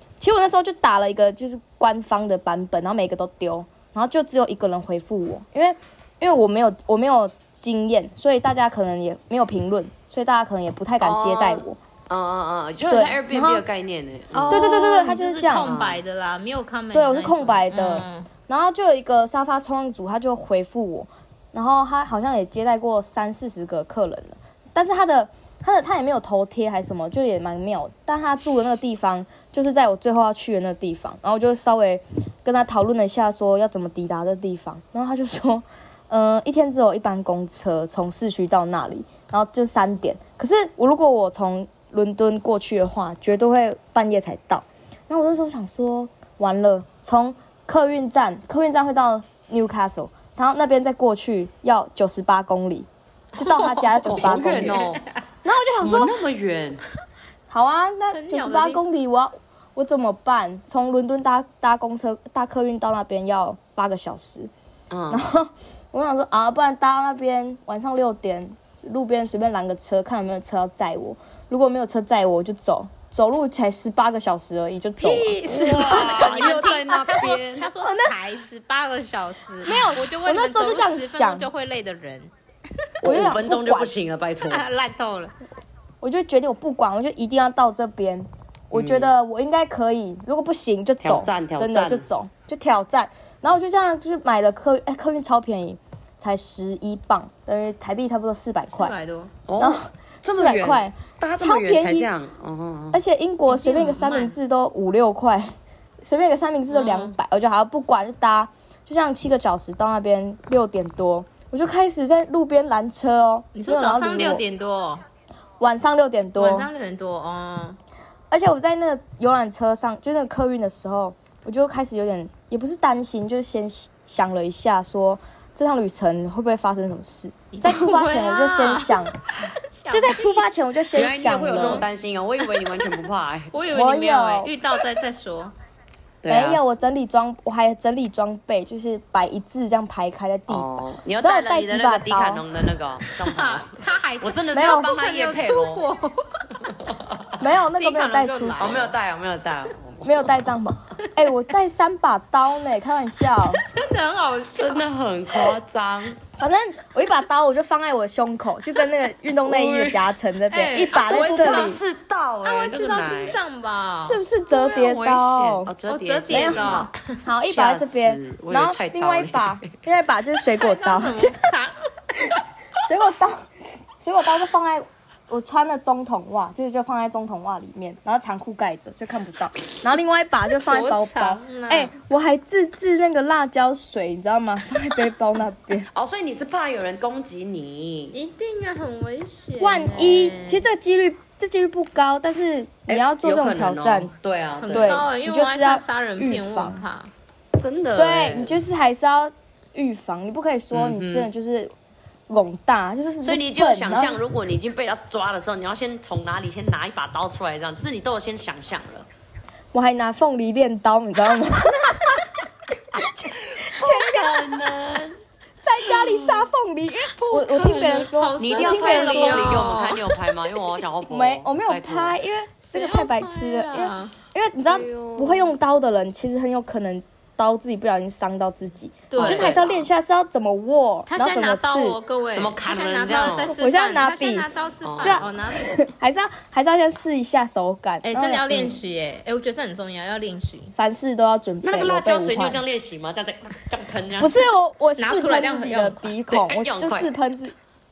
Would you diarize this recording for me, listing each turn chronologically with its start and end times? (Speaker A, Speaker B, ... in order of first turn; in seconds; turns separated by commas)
Speaker A: 0.2-11.8, Speaker B: 11.0-14.8, Speaker A: 12.9-13.6, Speaker C: 14.3-18.3, Speaker A: 14.5-15.7, Speaker B: 15.6-16.0, Speaker A: 16.9-54.8, Speaker B: 53.4-55.0, Speaker C: 54.3-55.0, Speaker A: 55.4-56.2, Speaker B: 55.8-56.8, Speaker A: 57.5-64.5, Speaker C: 58.1-58.8, Speaker B: 64.9-65.3, Speaker A: 65.1-76.5, Speaker C: 75.0-82.3, Speaker B: 75.5-77.7, Speaker A: 77.8-78.1, Speaker A: 79.6-81.5, Speaker A: 83.0-83.9, Speaker B: 83.0-84.7, Speaker C: 84.4-85.3, Speaker A: 86.0-98.9, Speaker B: 88.7-89.1, Speaker B: 91.0-92.1, Speaker C: 98.7-99.3, Speaker B: 99.5-103.0, Speaker A: 99.6-102.1, Speaker A: 102.9-114.4, Speaker C: 103.5-104.4, Speaker C: 106.7-107.2, Speaker C: 113.5-115.0, Speaker A: 115.6-116.7, Speaker C: 116.3-117.8, Speaker A: 118.3-129.1, Speaker C: 127.5-129.0, Speaker C: 129.7-130.4, Speaker A: 129.9-131.8, Speaker B: 130.9-133.5, Speaker C: 131.5-131.8, Speaker C: 132.4-133.0, Speaker C: 133.5-135.5, Speaker A: 133.7-134.5, Speaker B: 136.2-136.7, Speaker A: 136.3-140.7, Speaker B: 140.5-145.8, Speaker A: 141.2-142.4, Speaker C: 143.0-146.5, Speaker A: 144.5-144.9, Speaker B: 146.6-147.4, Speaker A: 147.4-148.8, Speaker C: 147.7-148.9, Speaker B: 148.6-150.3, Speaker A: 150.0-153.6, Speaker C: 153.3-155.6, Speaker B: 154.6-156.2, Speaker A: 156.4-161.8, Speaker B: 159.4-160.1, Speaker C: 160.5-161.8, Speaker B: 160.9-163.4, Speaker C: 162.4-164.2, Speaker A: 164.0-165.7, Speaker B: 164.5-166.9, Speaker C: 165.9-167.0, Speaker A: 166.3-171.4, Speaker B: 167.4-169.7, Speaker C: 170.5-171.9, Speaker A: 172.3-185.9, Speaker C: 180.6-181.9, Speaker B: 185.9-188.2, Speaker C: 188.1-190.7, Speaker A: 189.6-194.1, Speaker B: 192.9-195.0, Speaker C: 194.6-197.1, Speaker A: 194.7-196.8, Speaker B: 197.6-198.6, Speaker A: 197.9-201.7, Speaker B: 200.7-201.3, Speaker A: 202.3-204.2, Speaker B: 203.2-209.1, Speaker A: 209.7-212.2, Speaker A: 212.9-214.6, Speaker B: 213.1-215.2, Speaker A: 215.6-219.7, Speaker B: 215.8-216.5, Speaker B: 217.1-222.2, Speaker C: 218.2-220.2, Speaker A: 221.1-232.0, Speaker C: 222.7-224.1, Speaker B: 224.7-225.5, Speaker C: 229.1-229.7, Speaker B: 229.2-229.8, Speaker C: 231.1-235.8, Speaker B: 232.3-233.6, Speaker A: 233.6-234.4, Speaker B: 234.8-235.3, Speaker A: 235.0-238.8, Speaker C: 238.0-240.7, Speaker A: 240.8-242.6, Speaker B: 241.6-244.4, Speaker A: 244.2-247.5, Speaker C: 245.0-246.1, Speaker B: 246.3-247.1